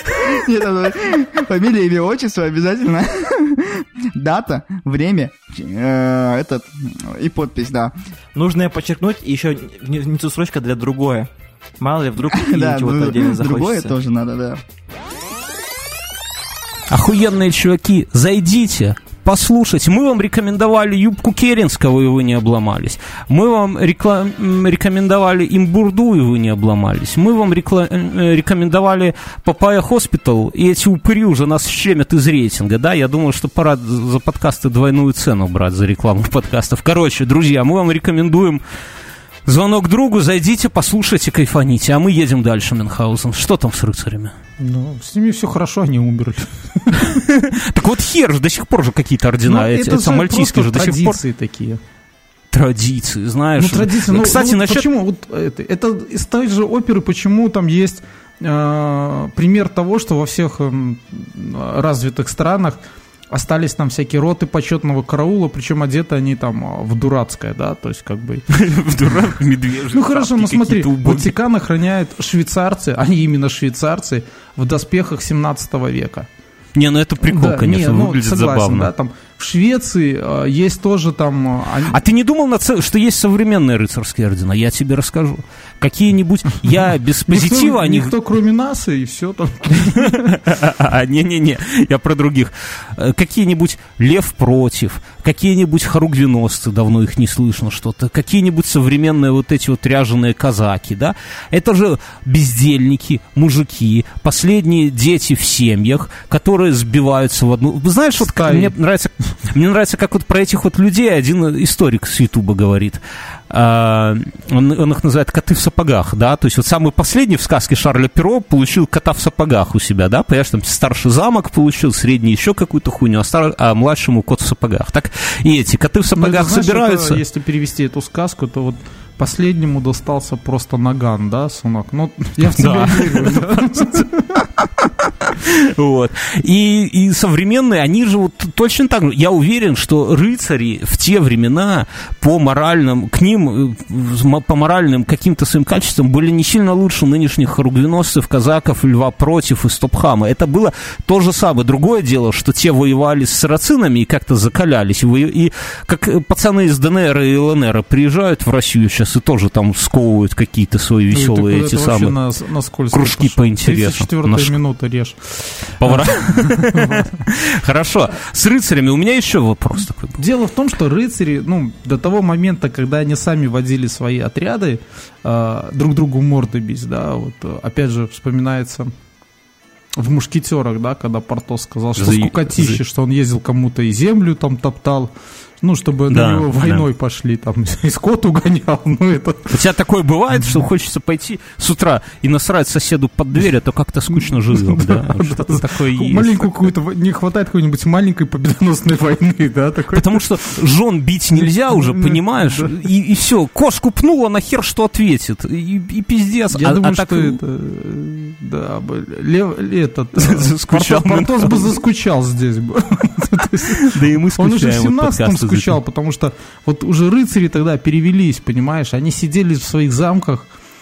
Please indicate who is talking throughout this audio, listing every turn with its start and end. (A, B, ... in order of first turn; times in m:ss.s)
0:00.4-0:07.9 A
0:08.3-0:11.3 B
0:11.8-0:13.9 B
0:12.3-0:14.6 A
0:16.9-0:38.6 C
0:39.4-0:44.3 C
0:44.6-0:47.2 D
0:47.0-0:51.2 C
0:49.4-0:51.8 D
0:52.5-0:54.9 C
0:53.6-1:02.8 D
1:03.3-1:08.4 D
1:08.5-1:11.3 C
1:09.9-1:16.3 D
1:16.8-1:18.9 C
1:17.2-1:22.0 D
1:21.8-1:28.1 C
1:27.3-1:30.3 D
1:30.0-2:07.2 C
1:48.2-1:48.7 D
2:06.1-2:14.4 D
2:12.4-2:14.1 C
2:15.0-2:42.1 C
2:41.1-2:47.2 D
2:42.9-2:44.6 C
2:45.8-2:50.2 C
2:50.2-2:58.9 D
3:00.0-3:09.6 D
3:02.0-3:02.8 C
3:06.1-3:06.8 C
3:09.5-3:16.7 C
3:14.1-3:20.2 D
3:19.9-3:27.4 C
3:21.3-3:22.7 D
3:26.5-3:40.5 D
3:30.2-3:31.7 C
3:33.7-3:35.8 C